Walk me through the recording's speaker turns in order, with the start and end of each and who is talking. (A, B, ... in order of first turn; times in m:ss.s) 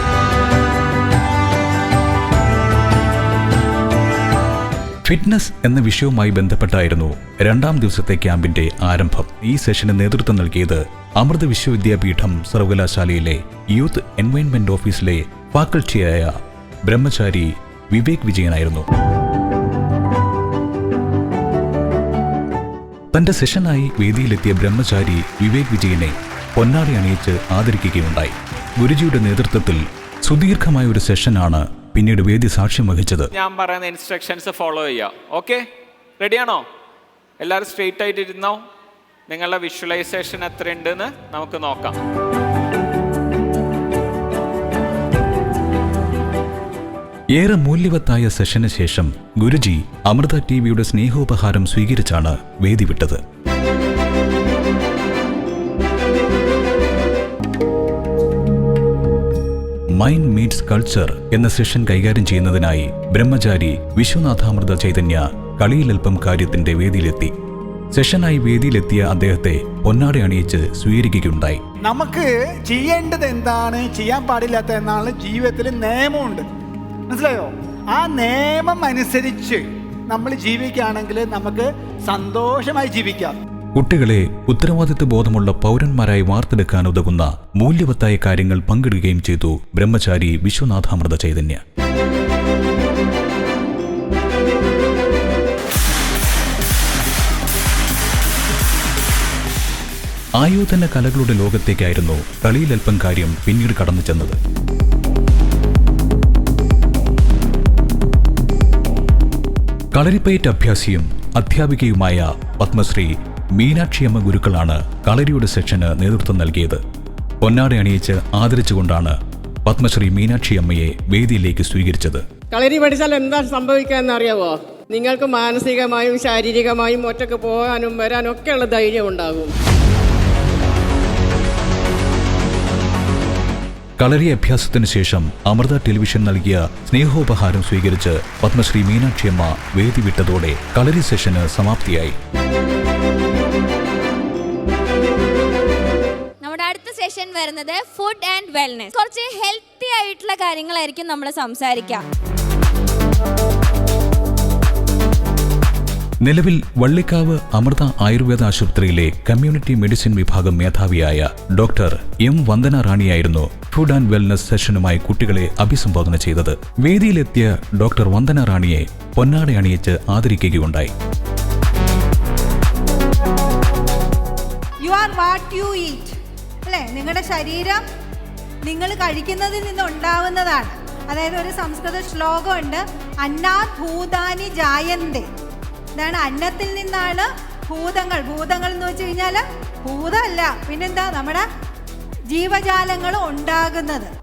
0:05.0-0:16.3 A
0:16.8-0:18.9 A
0:23.1-0:33.3 A
0:33.3-0:35.6 B
0:36.2-0:36.6 B
0:37.4-0:38.6 B
0:39.3-0:41.9 B
0:47.3-0:53.2 A
0:59.9-1:07.3 A
1:07.9-1:11.6 A
1:11.8-1:16.4 C
1:17.1-1:23.4 C
1:23.8-1:31.6 A
1:40.4-1:44.4 A
1:49.9-1:56.8 A
1:57.4-2:02.2 A
2:02.5-2:09.5 D
2:14.0-2:22.1 A
2:26.4-2:32.0 E
2:36.2-2:50.9 A
2:54.8-2:56.1 F
2:56.6-2:57.8 F
2:58.6-3:05.2 F
3:06.0-3:11.4 F
3:12.3-3:14.1 F